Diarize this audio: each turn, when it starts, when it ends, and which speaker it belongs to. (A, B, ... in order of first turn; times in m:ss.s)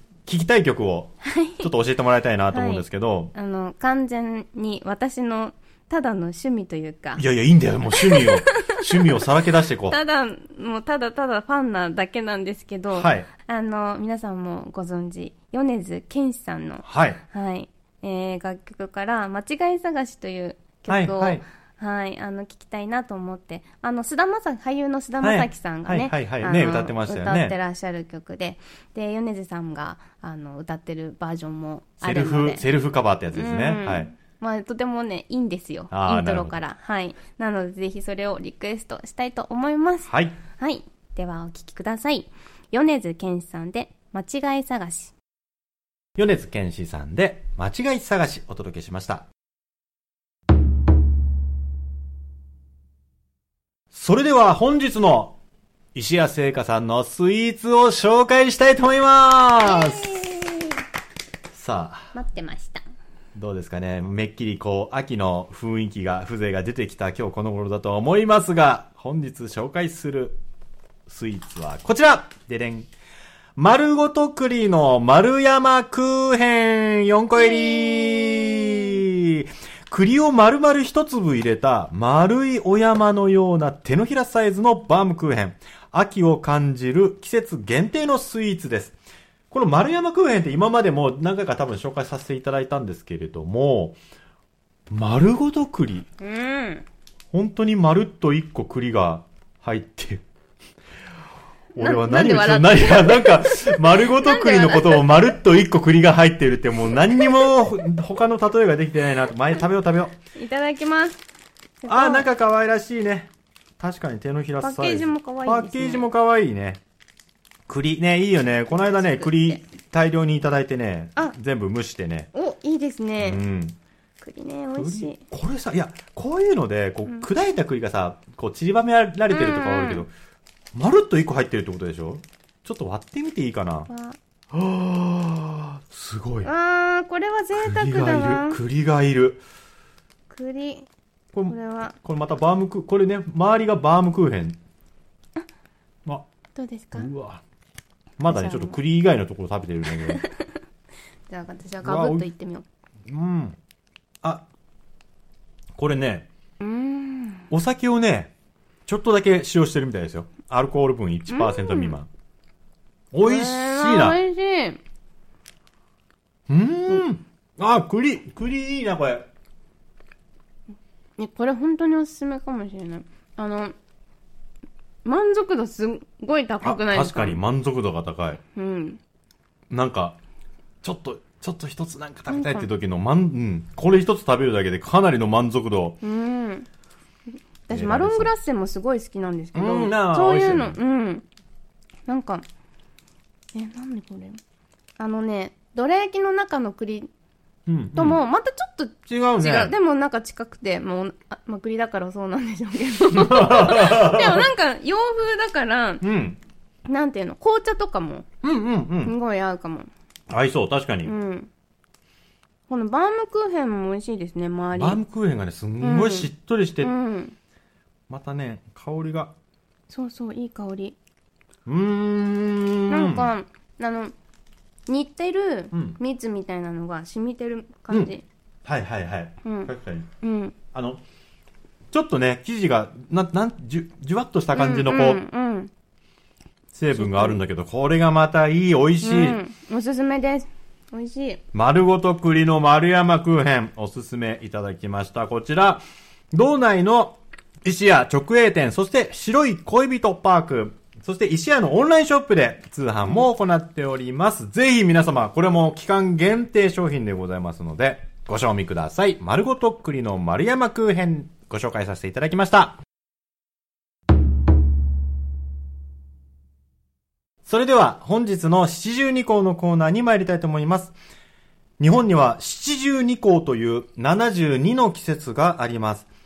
0:00.2-0:03.3 A
0:01.2-0:01.7 B
0:02.5-0:07.2 B
0:07.2-0:10.0 A
0:07.9-0:09.1 B
0:09.9-0:32.6 B
0:12.9-0:13.3 A
0:16.8-0:17.2 A
0:20.9-0:21.4 A
0:25.2-0:27.6 A
0:32.0-0:34.1 A
0:33.3-0:45.1 B
0:35.9-0:36.6 A
0:40.1-0:40.4 A
0:46.2-0:49.3 A
0:53.9-0:55.4 A
0:56.0-1:00.2 A
0:59.6-1:00.8 B
1:01.5-1:02.1 A
1:02.1-1:02.8 B
1:03.4-1:10.4 A
1:11.1-1:12.9 A
1:13.6-1:29.0 A
1:17.4-1:19.0 B
1:29.5-1:34.0 A
1:34.9-1:36.1 A
1:36.2-1:36.9 B
1:37.3-1:40.2 A
1:41.8-1:50.2 A
1:41.8-1:45.1 B
1:47.2-1:47.5 B
1:50.4-1:51.2 B
1:51.8-1:52.3 B
1:51.9-1:56.8 A
1:54.6-1:56.1 B
1:57.7-2:02.3 A
1:58.7-1:59.6 B
2:02.3-2:03.4 B
2:03.2-2:03.8 A
2:04.2-2:05.2 B
2:04.8-2:10.1 A
2:09.3-2:10.1 B
2:10.7-2:13.9 A
2:13.9-2:14.2 B
2:14.5-2:16.5 A
2:16.4-2:18.6 B
2:17.6-2:19.4 A
2:20.3-2:20.9 B
2:21.3-2:24.6 A
2:21.5-2:22.0 B
2:26.6-2:27.1 B
2:27.0-2:27.4 A
2:28.2-2:30.2 A
2:28.3-2:28.8 B
2:30.1-2:30.4 B
2:31.3-2:32.6 B
2:31.8-2:32.2 A
2:33.1-2:33.6 A
2:35.8-2:36.3 A
2:36.6-2:37.5 B
2:37.5-2:38.3 A
2:38.9-2:42.1 A
2:41.3-2:41.9 B
2:43.1-2:44.2 A
2:43.2-2:44.8 B
2:46.5-2:49.2 A
2:51.2-2:53.8 B
2:55.0-2:57.4 B
2:56.6-2:58.4 A
2:58.5-2:59.0 B
2:59.7-3:00.2 A
3:00.8-3:06.0 A
3:02.3-3:02.7 B
3:06.0-3:06.7 B
3:07.7-3:11.2 B
3:07.7-3:08.3 A
3:09.6-3:10.8 A
3:12.1-3:12.4 B
3:13.5-3:14.4 B
3:15.0-3:17.1 B
3:17.7-3:18.2 A
3:18.0-3:26.0 B
3:19.1-3:19.7 A
3:23.1-3:24.5 A
3:26.0-3:26.4 A
3:26.9-3:28.2 B
3:28.4-3:29.1 A
3:29.0-3:29.9 B
3:30.3-3:31.1 A
3:31.0-3:31.5 B
3:32.7-3:35.0 B
3:34.8-3:36.9 A
3:35.8-3:36.3 B
3:36.8-3:37.4 B
3:38.1-3:39.3 A
3:39.9-3:41.0 B
3:41.6-3:43.3 A
3:42.9-3:44.1 B
3:44.9-3:48.2 B
3:45.7-3:46.0 A
3:48.6-3:50.1 A
3:49.4-3:49.7 B
3:50.2-3:50.6 B
3:50.7-3:51.0 A
3:51.9-3:55.2 A
3:54.5-3:55.7 B
3:56.7-3:59.4 A
3:56.9-3:57.4 B
3:59.0-4:01.4 B
4:01.5-4:22.8 A
4:27.5-4:31.0 A
4:31.8-4:36.1 A